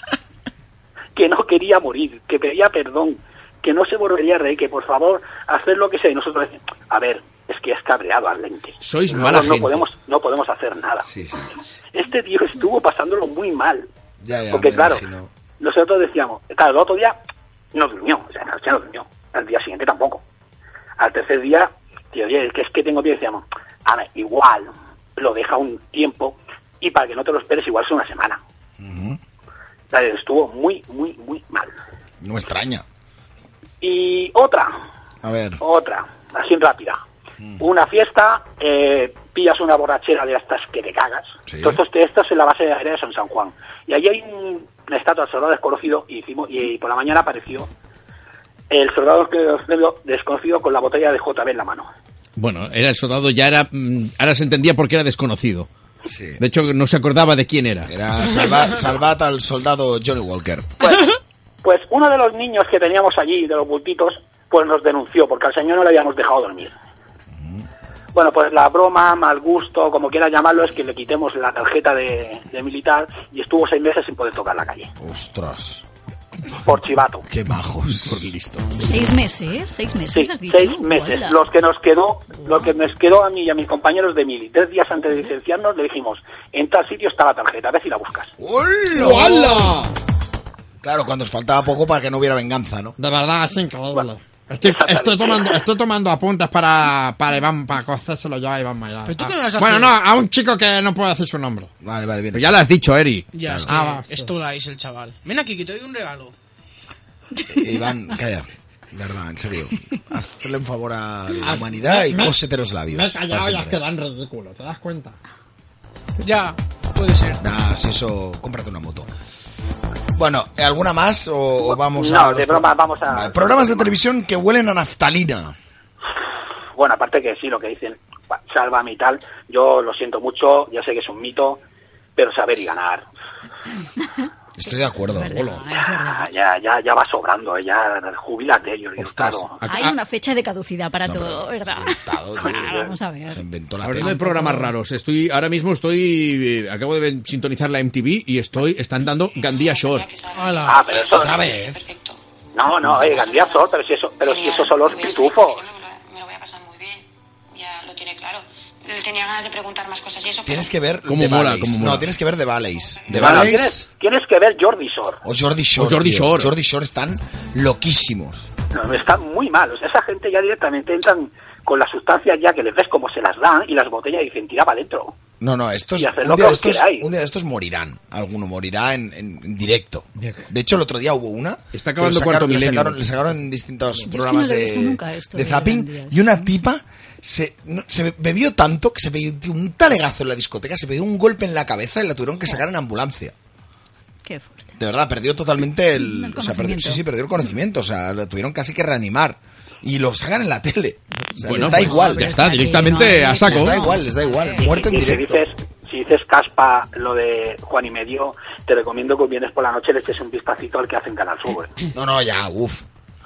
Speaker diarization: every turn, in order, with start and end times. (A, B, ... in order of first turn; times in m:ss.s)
0:01.2-0:11.1 A
0:08.8-0:09.9 B
0:11.0-0:11.6 C
0:11.9-0:13.9 A
0:14.2-0:15.3 C
0:14.5-0:15.0 A
0:15.6-0:17.2 A
0:17.7-0:20.2 A
0:21.0-0:28.4 A
0:28.8-0:29.2 C
0:29.9-0:31.8 A
0:32.2-0:32.8 C
0:33.8-0:34.7 A
0:35.2-0:35.6 C
0:35.6-0:37.0 A
0:37.6-0:47.7 A
0:41.5-0:41.8 C
0:48.7-0:51.9 A
0:52.4-0:55.7 B
0:56.1-0:56.4 C
0:56.4-0:57.9 B
0:57.9-1:00.8 C
1:00.8-1:01.1 A
1:01.6-1:06.7 A
1:07.4-1:07.6 C
1:08.1-1:14.9 A
1:15.0-1:15.8 C
1:16.6-1:17.3 A
1:17.3-1:18.2 C
1:17.9-1:18.9 B
1:18.8-1:21.4 D
1:20.1-1:28.3 A
1:28.4-1:29.7 C
1:28.9-1:29.9 E
1:30.8-1:33.0 C
1:33.0-1:41.7 E
1:34.6-1:35.6 A
1:39.0-1:40.0 F
1:41.8-1:42.6 C
1:42.3-1:43.3 B
1:43.3-1:46.3 F
1:43.5-1:43.7 C
1:43.7-1:44.3 E
1:47.5-1:53.8 C
1:51.4-1:52.4 E
1:52.9-1:55.2 E
1:56.2-1:57.4 F
1:57.4-1:59.1 C
2:00.2-2:05.6 C
2:01.6-2:03.9 A
2:06.8-2:11.6 A
2:12.2-2:13.1 A
2:14.6-2:15.4 C
2:15.1-2:16.3 D
2:15.7-2:19.7 A
2:19.0-2:20.0 B
2:19.7-2:23.4 D
2:21.0-2:24.3 C
2:22.4-2:22.9 A
2:23.8-2:30.1 B
2:24.0-2:24.7 D
2:29.6-2:32.2 G
2:30.3-2:30.9 F
2:30.6-2:31.4 A
2:31.0-2:31.8 C
2:32.6-2:35.6 A
2:32.8-2:33.2 C
2:33.3-2:33.5 G
2:34.2-2:40.7 G
2:40.4-2:43.8 C
2:41.1-2:42.1 B
2:43.1-2:45.2 A
2:43.2-2:43.5 B
2:45.2-2:48.5 C
2:45.8-2:46.5 B
2:48.7-2:55.1 A
2:55.4-3:13.3 C
2:56.0-2:57.1 A
3:00.2-3:00.4 B
3:01.7-3:03.1 B
3:04.0-3:06.5 D
3:14.2-3:14.7 D
3:14.8-3:25.4 C
3:16.0-3:17.0 D
3:21.4-3:23.8 B
3:21.6-3:24.8 D
3:24.6-3:31.7 A
3:31.9-3:32.8 C